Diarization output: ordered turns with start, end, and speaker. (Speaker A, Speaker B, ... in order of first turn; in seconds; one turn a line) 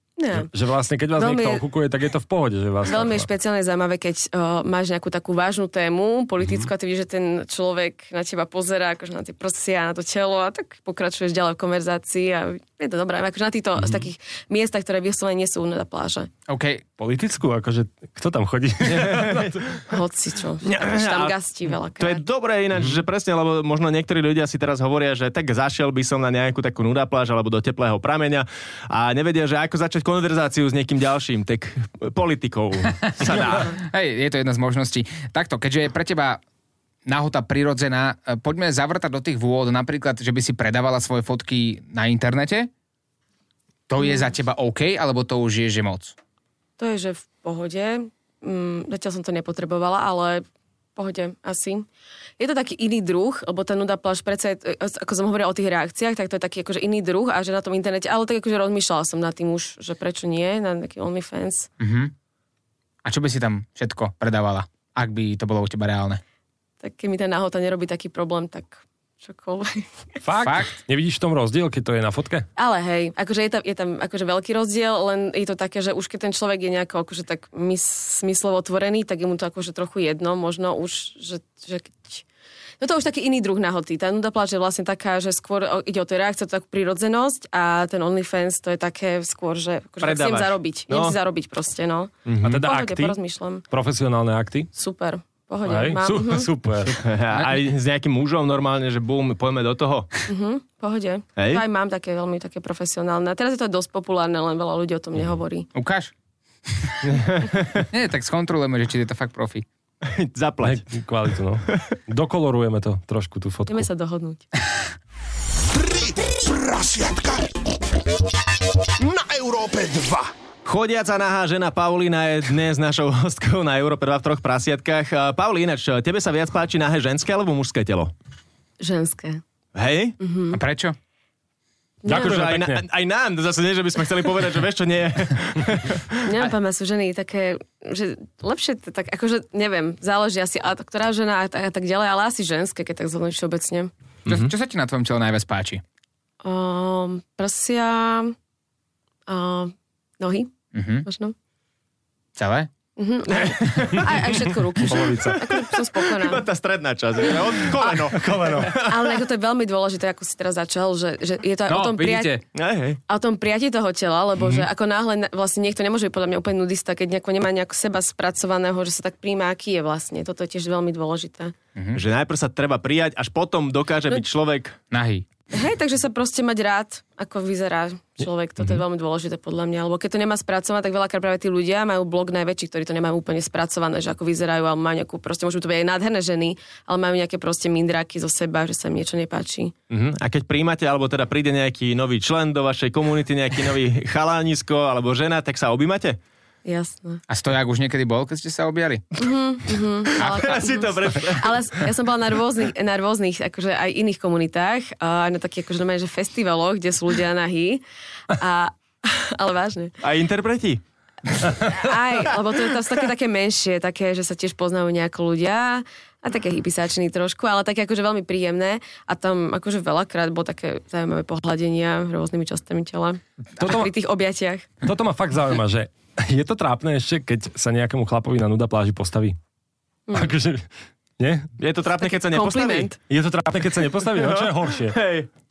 Speaker A: 0.2-0.5
Speaker B: 0.3-3.3
Speaker A: 1.1-1.6
Speaker A: 2.8-16.3
Speaker C: 16.5-16.8
Speaker B: 17.0-19.8
Speaker D: 18.9-19.6
Speaker A: 19.9-22.2
Speaker D: 20.6-21.4
Speaker D: 22.0-33.8
Speaker C: 33.3-36.4
Speaker C: 37.0-42.7
Speaker C: 43.9-46.1
Speaker A: 44.0-44.3
Speaker A: 46.8-50.4
Speaker A: 51.0-51.9
Speaker A: 52.4-61.7
Speaker C: 61.8-62.1
Speaker C: 63.0-66.2
Speaker A: 66.8-69.9
Speaker B: 70.2-72.5
Speaker C: 70.4-70.8
Speaker A: 72.5-82.2
Speaker A: 82.8-93.6
Speaker D: 90.0-91.2
Speaker D: 92.2-92.6
Speaker B: 92.4-93.2
Speaker B: 93.7-94.7
Speaker A: 94.7-96.5
Speaker B: 95.6-97.0
Speaker D: 96.9-100.1
Speaker C: 97.3-97.6
Speaker A: 100.3-105.7
Speaker D: 101.4-101.6
Speaker C: 105.7-106.1
Speaker C: 106.7-107.0
Speaker D: 107.0-107.8
Speaker C: 107.9-109.7
Speaker D: 110.0-110.8
Speaker B: 110.6-113.9
Speaker A: 113.7-114.5
Speaker E: 115.7-117.5
Speaker E: 119.0-120.3
Speaker D: 120.6-128.1
Speaker A: 128.8-129.4
Speaker D: 129.7-130.2
Speaker A: 130.2-130.6
Speaker C: 130.5-130.9
Speaker A: 132.0-132.4
Speaker B: 132.1-132.8
Speaker D: 132.1-136.2
Speaker A: 136.2-143.9
Speaker D: 144.2-144.5
Speaker C: 144.2-145.8
Speaker A: 146.4-148.3
Speaker A: 149.3-150.5
Speaker C: 150.7-151.1
Speaker A: 151.0-151.3
Speaker C: 152.3-152.7
Speaker A: 153.0-156.4
Speaker D: 153.3-154.3
Speaker B: 154.9-155.4
Speaker D: 154.9-159.2
Speaker A: 157.3-158.0
Speaker B: 158.1-158.8
Speaker A: 158.6-162.3
Speaker C: 161.7-162.4
Speaker D: 162.5-163.0
Speaker A: 163.1-171.5
Speaker C: 171.8-172.0
Speaker D: 171.9-174.8
Speaker C: 174.9-175.2
Speaker A: 175.5-189.7
Speaker D: 189.9-196.2
Speaker A: 196.6-197.2
Speaker C: 197.3-199.1
Speaker A: 199.2-209.9
Speaker D: 200.2-201.6
Speaker C: 200.2-200.5
Speaker D: 210.0-210.8
Speaker A: 211.6-224.7
Speaker B: 223.6-223.9
Speaker B: 224.8-229.4
Speaker A: 230.1-230.3
Speaker B: 230.1-231.5
Speaker D: 231.6-232.9
Speaker A: 232.0-233.0
Speaker B: 233.1-235.0
Speaker D: 234.1-235.3